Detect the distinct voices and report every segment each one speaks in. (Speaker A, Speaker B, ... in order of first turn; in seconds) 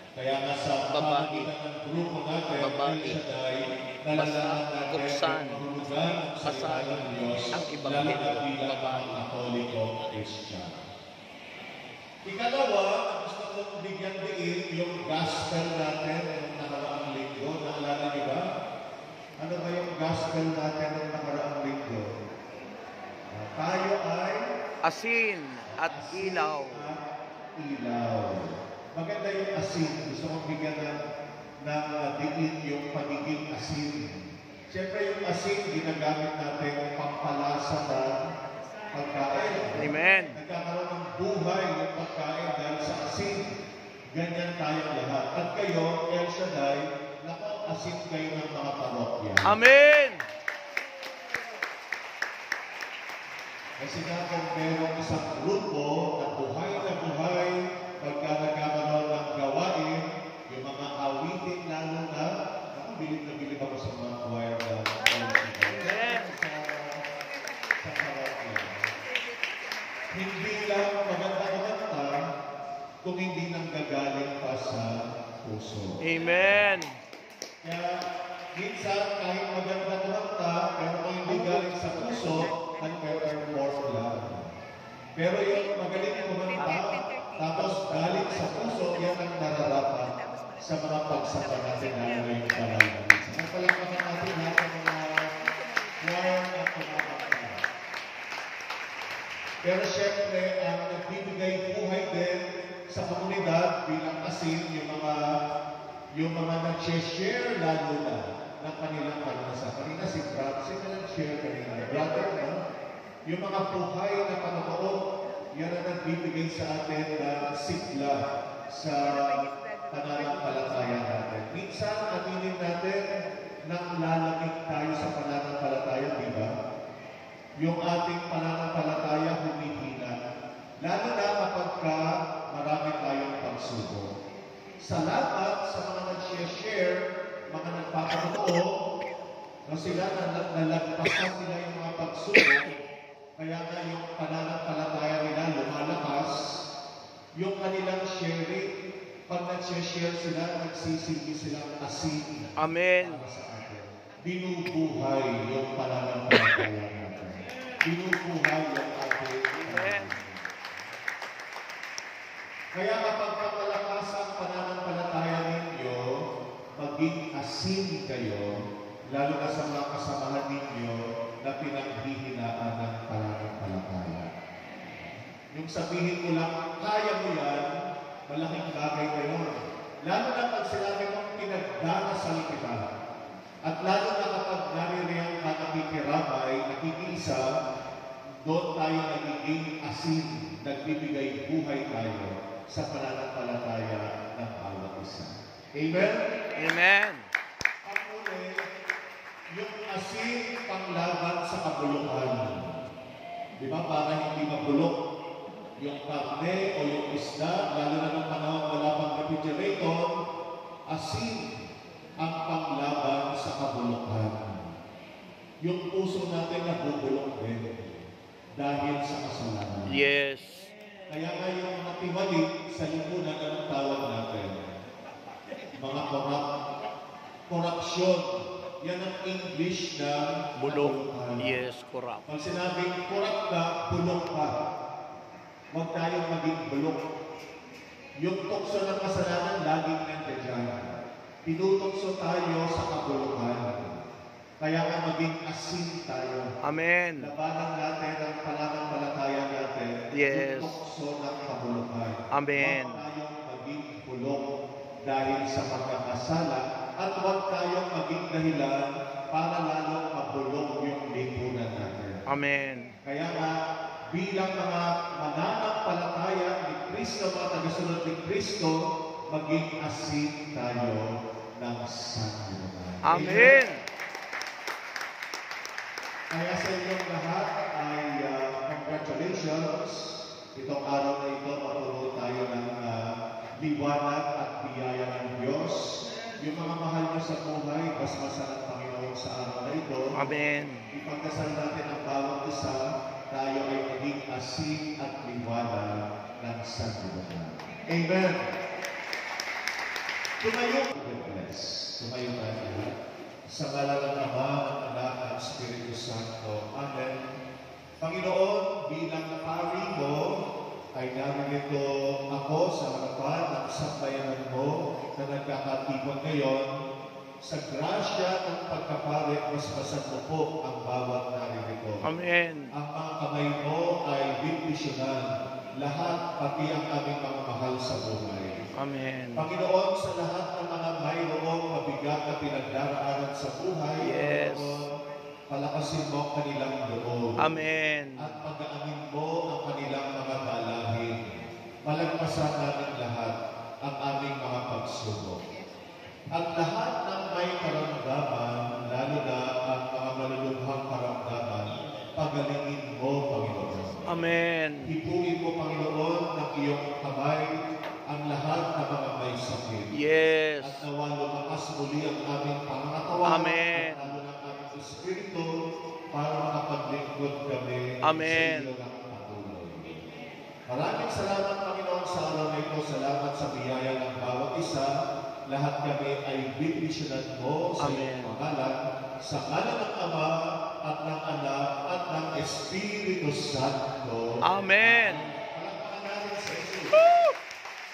Speaker A: 0.2-10.8, 12.2-18.4, 19.4-22.1, 23.3-24.4, 25.7-27.0, 27.6-31.0, 31.6-34.1, 34.7-38.1, 38.9-43.5, 44.1-49.5, 53.8-67.0, 67.8-68.9, 70.1-72.2, 73.0-76.5, 77.6-78.0, 78.6-84.5, 85.2-95.2, 96.0-97.6, 99.6-105.2, 106.2-112.5, 113.3-114.9, 115.6-123.0, 123.7-126.5, 127.6-130.2, 130.8-134.1, 134.8-138.8, 139.7-142.8, 143.4-146.4, 147.4-148.7, 149.3-160.8, 162.7-166.1, 166.8-168.5, 169.1-174.3, 175.5-177.7, 178.3-179.5, 180.1-182.9, 183.6-187.5, 188.4-196.2, 197.8-198.5, 199.5-202.7, 203.6-205.0, 205.8-210.1, 210.9-211.5, 212.2-214.7, 215.6-218.1, 218.6-219.9, 221.1-224.7, 225.8-226.5, 227.5-231.5, 232.3-234.5, 235.7-237.0, 238.2-244.0, 244.6-246.5, 247.2-254.4, 255.1-262.2, 263.0-263.5, 264.1-268.8, 269.3-271.1, 271.6-273.6, 276.3-283.1, 283.6-290.1, 290.9-298.4, 300.4-302.9, 303.5-307.2, 308.0-310.3, 310.9-316.7, 317.4-322.0, 322.7-325.3, 325.8-328.6, 329.4-334.9, 335.5-337.6, 338.2-341.3, 341.9-343.3, 343.9-345.4, 346.3-354.3, 354.9-357.5, 358.1-359.9, 360.6-365.5, 366.1-370.0, 370.7-374.9, 375.5-387.0
Speaker B: 0.9-1.5, 2.6-3.2, 4.1-5.7, 6.4-9.2, 24.8-26.9, 39.7-40.4, 49.4-50.2, 65.7-66.2, 76.0-76.9, 81.3-82.4, 152.6-153.2, 159.5-160.1, 196.6-197.3, 219.9-220.7, 230.6-232.2, 246.6-247.3, 250.1-250.7, 252.3-253.0, 262.3-262.9, 273.0-273.8, 290.1-290.9, 322.0-322.7, 328.8-329.5, 334.0-334.8, 337.4-338.3, 354.1-354.9, 359.9-360.8, 363.2-364.1, 368.0-368.7, 377.8-378.4, 384.4-385.2